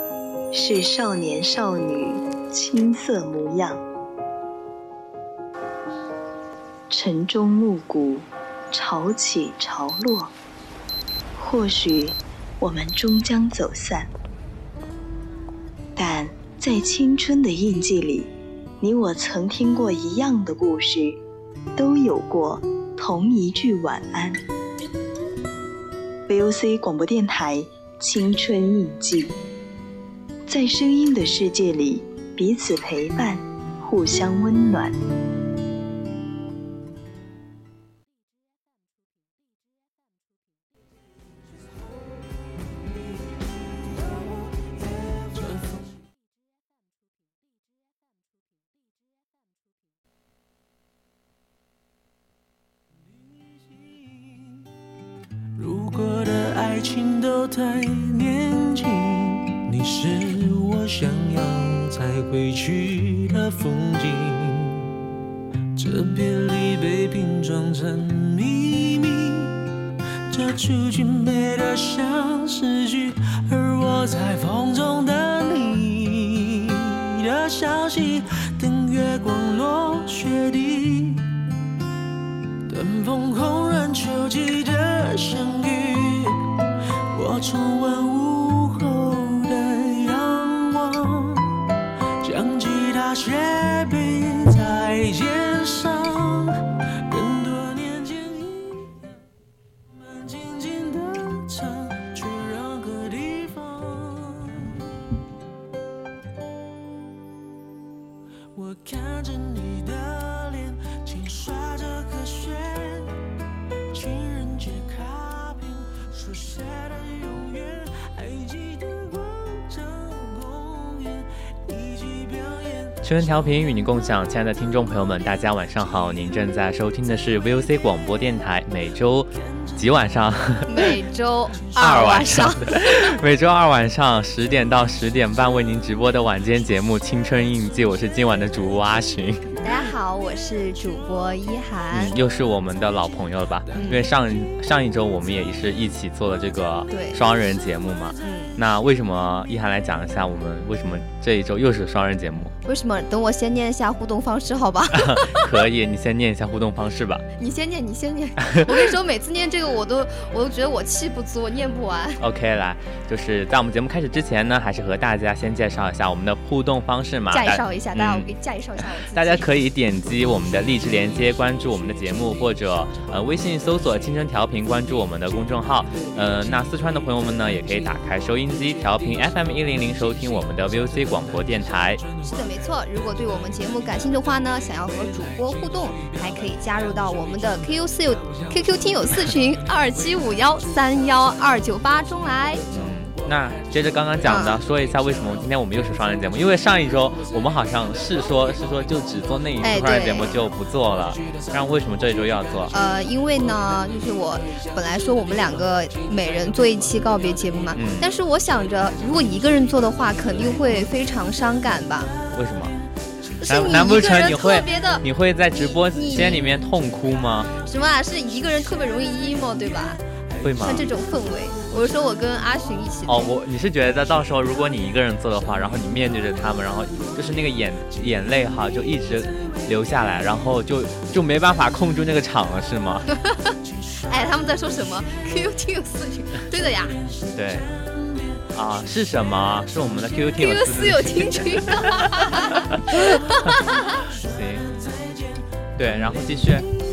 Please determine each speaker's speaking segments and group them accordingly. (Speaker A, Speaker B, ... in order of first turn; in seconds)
Speaker A: 0.5-3.8, 6.9-10.3, 11.3-14.1, 16.0-21.2, 21.8-24.4, 26.3-29.4, 30.5-35.0
Speaker B: 45.4-45.8, 55.6-64.9, 65.8-69.7, 70.3-81.3, 82.7-86.4, 87.1-91.6, 92.2-99.0, 100.0-104.8, 108.5-113.1, 113.9-123.0
Speaker C: 123.0-131.0, 131.7-139.6, 141.9-152.5, 154.9-157.2, 158.4-158.7, 162.2-168.3, 169.1-182.0, 192.7-202.7, 207.8-208.1, 212.3-212.8, 213.5-217.5, 220.4-220.9, 223.1-233.1, 237.3-237.7, 238.5-242.9, 244.2-244.7, 245.8-246.7
Speaker D: 130.7-133.2, 139.6-142.1, 143.7-144.1, 146.9-147.2, 148.2-148.6, 152.7-155.5, 157.4-162.2, 167.3-169.5, 182.3-192.7, 194.3-194.6, 199.6-200.4, 202.7-212.1, 213.4-215.1, 215.9-216.4, 217.6-220.0, 220.6-223.3, 233.1-237.0, 240.4-243.8